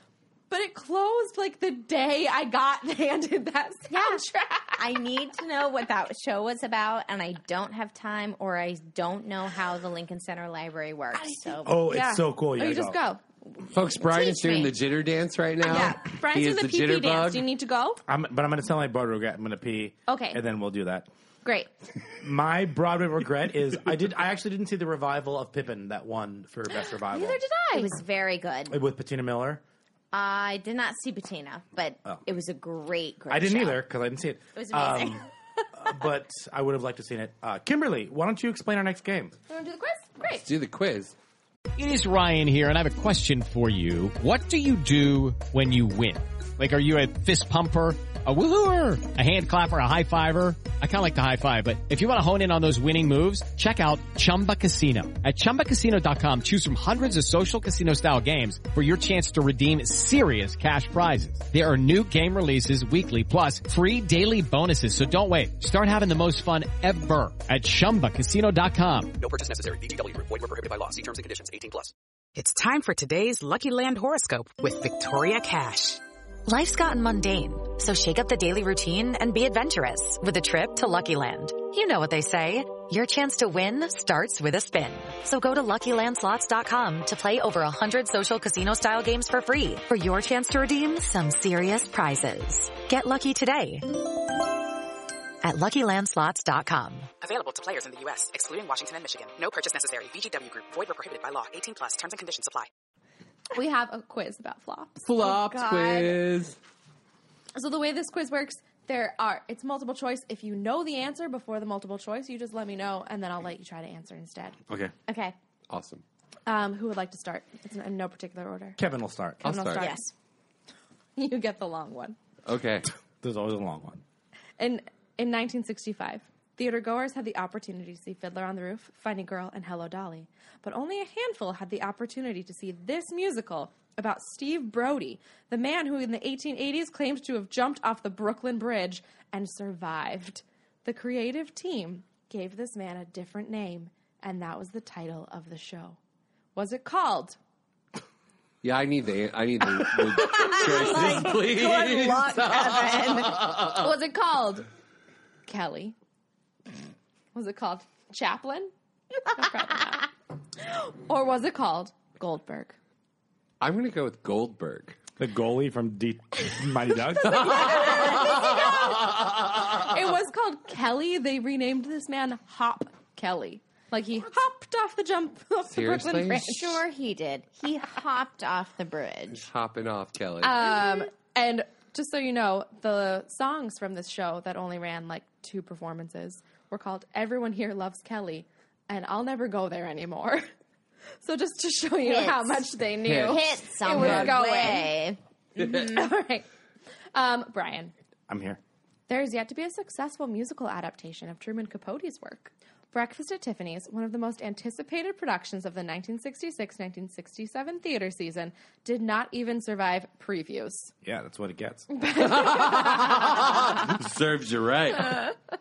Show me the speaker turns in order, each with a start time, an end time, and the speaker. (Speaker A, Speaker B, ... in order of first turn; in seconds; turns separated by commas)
Speaker A: 0.5-4.8, Speaker B: 3.9-11.8, Speaker A: 11.1-13.2, Speaker C: 11.7-13.0, Speaker D: 13.7-17.5, Speaker B: 14.0-14.7, Speaker A: 15.6-18.0, Speaker C: 18.1-21.1, Speaker A: 20.1-20.4, Speaker A: 21.4-21.7, Speaker C: 22.2-27.4, Speaker A: 27.1-27.9, Speaker B: 27.7-28.8, Speaker C: 28.7-29.6, Speaker B: 30.1-33.8, Speaker C: 33.3-35.2, Speaker B: 34.5-35.2, Speaker C: 35.8-39.3, Speaker A: 39.5-40.5, Speaker D: 40.4-41.1, Speaker E: 41.8-69.1, Speaker F: 69.2-71.9, Speaker G: 72.4-76.0, Speaker H: 76.5-93.9, Speaker H: 95.4-97.1, Speaker F: 97.2-102.7, Speaker A: 103.5-105.3, Speaker D: 105.0-106.6, Speaker B: 105.2-106.2, Speaker A: 107.5-114.6, Speaker B: 115.1-115.3, Speaker D: 115.7-116.0, Speaker A: 116.5-118.8, Speaker C: 118.8-119.5, Speaker A: 119.4-120.0, Speaker D: 119.4-119.9, Speaker B: 119.8-120.1, Speaker A: 121.2-122.2, Speaker D: 122.4-122.9, Speaker C: 123.2-124.0, Speaker A: 124.6-146.0, Speaker A: 146.5-147.4, Speaker D: 148.6-153.8, Speaker B: 150.2-153.4, Speaker A: 153.6-154.7, Speaker A: 155.4-155.9, Speaker A: 157.3-158.7, Speaker A: 159.3-160.1, Speaker A: 160.6-162.8, Speaker D: 163.6-165.0, Speaker C: 165.2-167.7, Speaker D: 167.3-168.7, Speaker A: 167.6-168.9, Speaker A: 169.8-176.8, Speaker D: 175.7-176.5, Speaker B: 176.3-179.4, Speaker D: 179.3-180.8, Speaker A: 180.4-190.5, Speaker A: 191.2-195.0, Speaker B: 192.0-192.7, Speaker D: 193.0-194.3, Speaker B: 193.2-195.2, Speaker A: 195.6-196.4, Speaker A: 197.1-197.9, Speaker C: 198.3-198.6, Speaker A: 199.1-210.9, Speaker C: 211.0-211.9, Speaker A: 211.9-213.4, Speaker D: 212.2-215.3